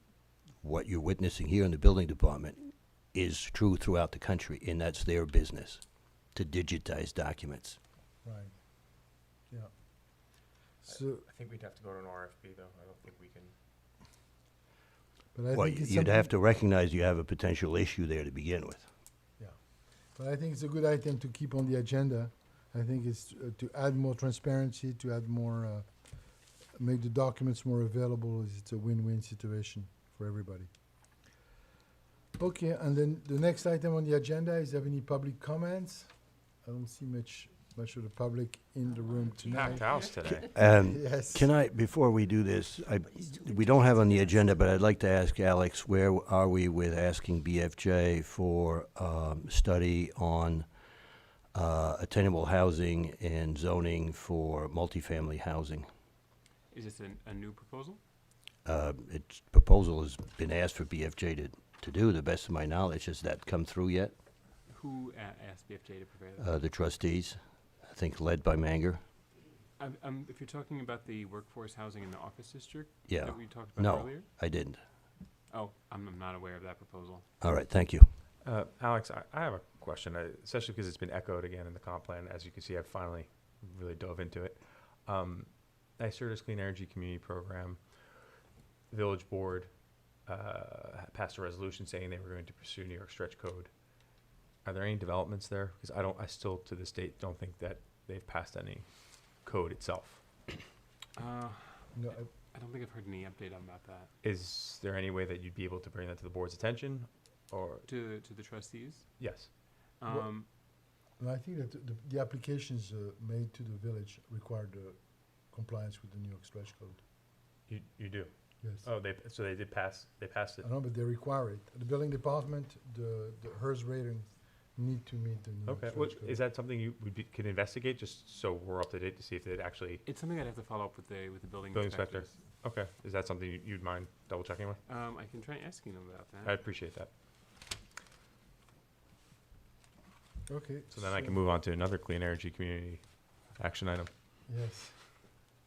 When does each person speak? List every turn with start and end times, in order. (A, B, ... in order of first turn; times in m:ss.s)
0:00.6-0:07.8 A
0:08.2-0:08.5 B
0:10.8-0:11.3 B
0:10.9-0:13.5 C
0:15.3-0:16.3 B
0:15.5-0:18.9 A
0:20.1-0:25.9 B
0:26.8-0:30.7 B
0:32.4-0:41.5 B
0:39.5-0:40.5 C
0:40.5-0:50.7 A
0:51.5-0:55.9 A
0:56.7-0:58.0 D
0:58.6-1:04.2 A
1:04.7-1:06.6 D
1:06.4-1:09.0 A
1:09.8-1:14.3 D
1:13.1-1:14.8 A
1:15.5-1:17.3 D
1:17.4-1:18.1 A
1:18.4-1:28.4 C
1:28.9-1:33.7 C
1:34.6-1:40.3 C
1:41.2-1:44.1 D
1:41.9-1:42.3 B
1:44.2-1:47.9 C
1:47.9-1:49.1 D
1:49.2-1:49.5 C
1:49.8-1:50.5 D
1:50.1-1:57.0 B
1:57.7-2:00.7 C
1:58.6-1:58.9 B
2:00.6-2:06.4 B
2:05.7-2:10.0 C
2:10.0-2:12.4 D
2:11.7-2:14.8 C
2:14.9-2:16.6 D
2:16.4-2:17.1 C
2:20.5-2:21.4 B
2:20.9-2:24.1 C
2:24.5-2:25.0 B